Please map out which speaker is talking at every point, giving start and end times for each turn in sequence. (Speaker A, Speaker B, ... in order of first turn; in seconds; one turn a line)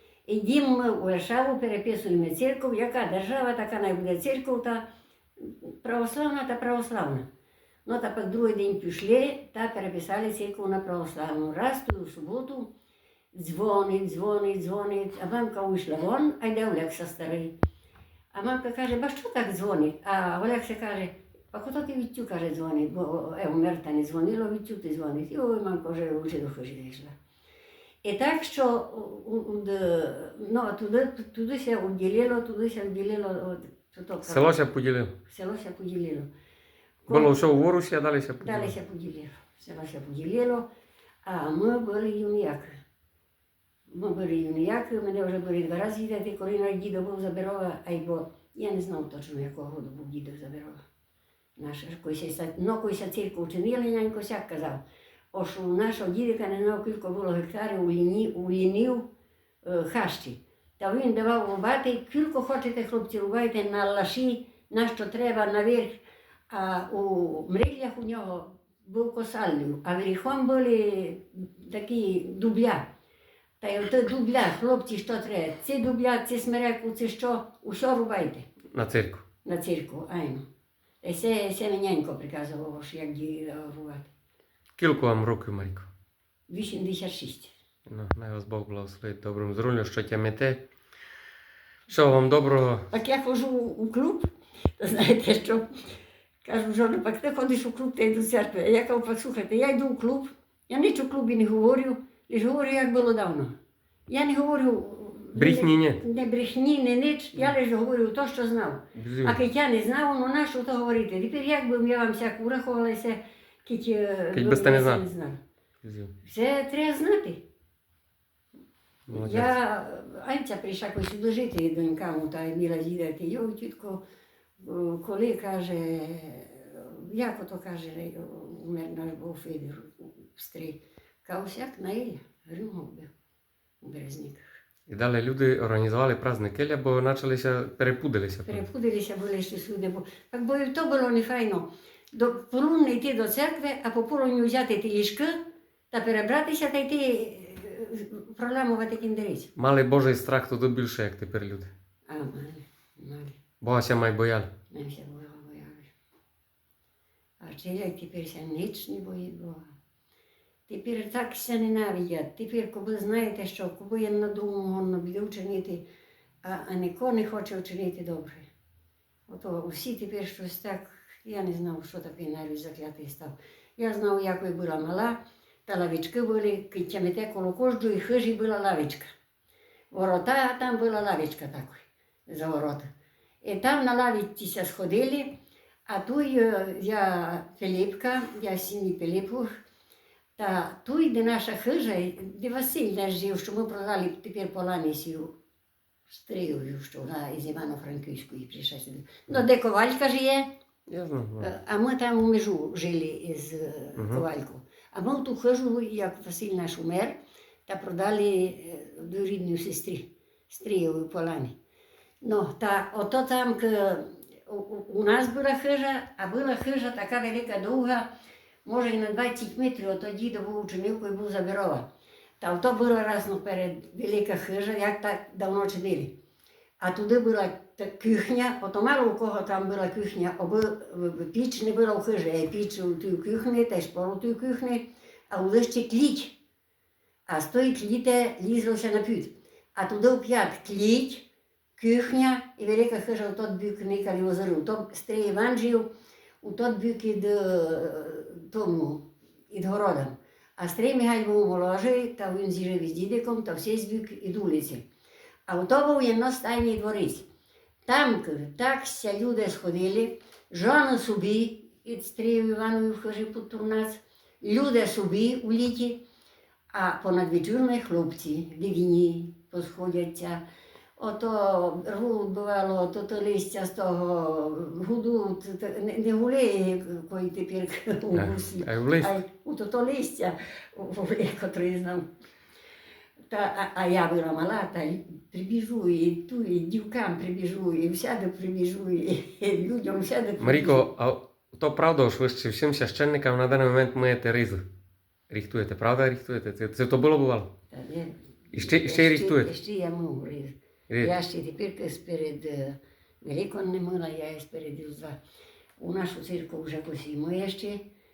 Speaker A: 0.3-4.8
Speaker A: 5.4-7.3
Speaker A: 7.8-12.7
Speaker A: 13.3-17.5
Speaker A: 18.3-27.1
Speaker A: 28.0-34.6
Speaker B: 34.3-35.1
Speaker A: 35.3-36.3
Speaker A: 37.1-37.3
Speaker B: 37.1-38.7
Speaker A: 38.4-40.7
Speaker A: 41.2-42.8
Speaker A: 43.9-50.8
Speaker A: 51.6-54.8
Speaker A: 55.3-59.1
Speaker A: 59.6-72.8
Speaker A: 73.6-78.5
Speaker B: 78.7-79.2
Speaker A: 79.5-80.5
Speaker A: 81.0-84.1
Speaker B: 84.8-85.9
Speaker A: 86.5-87.5
Speaker B: 87.9-90.6
Speaker B: 91.9-92.9
Speaker A: 92.9-94.3
Speaker A: 94.8-95.7
Speaker A: 96.5-103.5
Speaker A: 104.1-115.4
Speaker B: 105.3-106.0
Speaker B: 109.0-109.4
Speaker B: 114.3-115.0
Speaker B: 115.8-116.1
Speaker A: 116.2-117.4
Speaker B: 119.1-119.5
Speaker A: 119.1-124.0
Speaker A: 124.6-133.1
Speaker A: 133.8-134.4
Speaker B: 134.9-138.6
Speaker A: 138.5-145.4
Speaker A: 145.9-149.5
Speaker B: 149.6-151.7
Speaker A: 152.1-153.4
Speaker B: 153.6-154.5
Speaker A: 154.7-155.9
Speaker A: 157.4-159.7
Speaker A: 160.7-165.8
Speaker A: 166.4-168.5
Speaker A: 169.3-179.1
Speaker A: 179.9-182.9
Speaker A: 183.4-185.3
Speaker A: 185.9-189.5
Speaker A: 190.4-195.3
Speaker A: 196.1-200.5
Speaker B: 200.9-201.5
Speaker A: 201.4-207.2
Speaker B: 204.0-204.2
Speaker A: 207.7-211.5
Speaker A: 212.2-218.1
Speaker A: 218.7-221.9
Speaker A: 222.4-226.2
Speaker A: 226.8-236.4
Speaker A: 237.3-241.3
Speaker A: 241.8-245.9
Speaker A: 246.4-254.8
Speaker A: 255.5-257.3
Speaker A: 257.9-266.0
Speaker A: 266.7-270.4
Speaker A: 271.0-282.1
Speaker B: 278.2-279.1
Speaker A: 283.3-290.9
Speaker B: 290.4-294.7
Speaker B: 295.3-297.5
Speaker A: 297.7-305.2
Speaker B: 298.5-299.5
Speaker B: 300.9-301.1
Speaker A: 305.8-307.9